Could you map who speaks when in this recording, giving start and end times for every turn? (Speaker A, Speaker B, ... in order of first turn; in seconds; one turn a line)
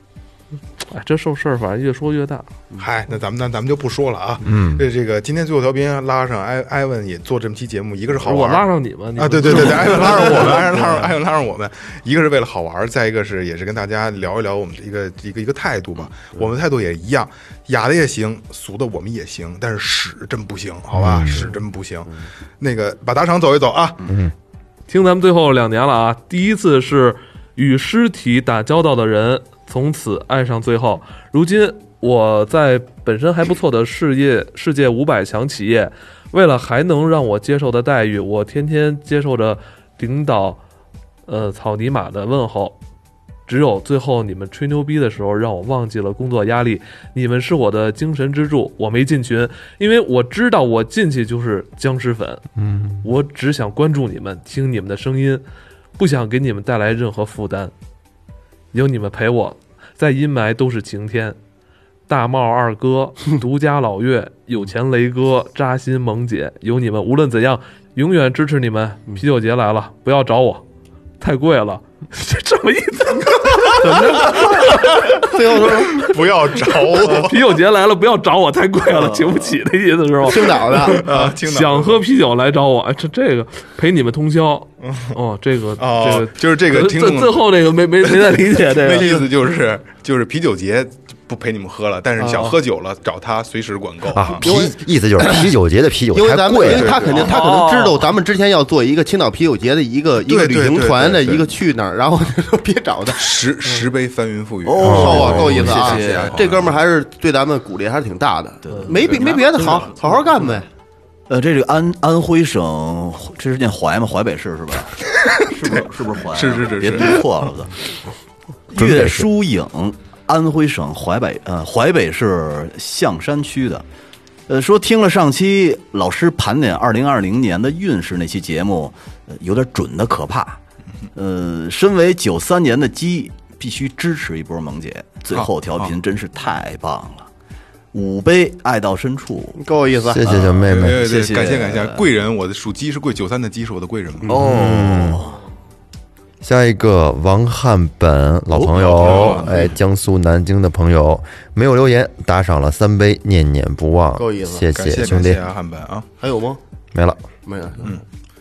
Speaker A: 0.9-2.5
Speaker B: 2.8-8.7
Speaker C: 4.4-4.8
Speaker A: 8.2-11.1
Speaker B: 9.2-24.1
Speaker C: 20.9-21.5
Speaker D: 21.4-22.2
Speaker A: 24.9-40.6
Speaker A: 41.3-42.8
Speaker A: 43.5-52.4
Speaker C: 52.6-53.0
Speaker A: 53.0-55.4
Speaker A: 56.0-57.7
Speaker A: 58.7-61.4
Speaker A: 62.1-70.6
Speaker A: 71.2-75.1
Speaker D: 74.1-76.2
Speaker B: 75.8-77.4
Speaker A: 76.8-89.3
Speaker E: 78.9-79.3
Speaker D: 80.2-81.3
Speaker B: 80.8-82.0
Speaker B: 84.8-85.2
Speaker B: 85.8-87.5
Speaker B: 88.1-94.5
Speaker C: 94.1-97.2
Speaker D: 94.4-95.5
Speaker D: 96.1-103.4
Speaker B: 96.6-97.4
Speaker A: 97.2-98.1
Speaker B: 100.2-101.5
Speaker B: 103.2-106.8
Speaker E: 104.7-106.5
Speaker C: 104.8-105.7
Speaker D: 104.8-110.7
Speaker E: 108.7-109.9
Speaker A: 108.7-109.0
Speaker A: 109.6-110.2
Speaker E: 111.3-117.8
Speaker B: 116.3-117.3
Speaker E: 118.7-123.8
Speaker C: 118.8-119.3
Speaker E: 124.5-130.6
Speaker E: 131.2-137.3
Speaker B: 135.3-135.9
Speaker E: 137.9-139.6
Speaker D: 139.6-140.2
Speaker C: 140.1-141.1
Speaker E: 140.2-142.1
Speaker B: 140.5-144.3
Speaker C: 144.3-145.2
Speaker E: 144.3-145.4
Speaker C: 146.4-155.4
Speaker E: 148.5-149.6
Speaker B: 148.7-149.7
Speaker D: 154.2-154.7
Speaker B: 154.7-156.1
Speaker D: 156.2-156.6
Speaker C: 156.9-157.2
Speaker D: 157.4-157.9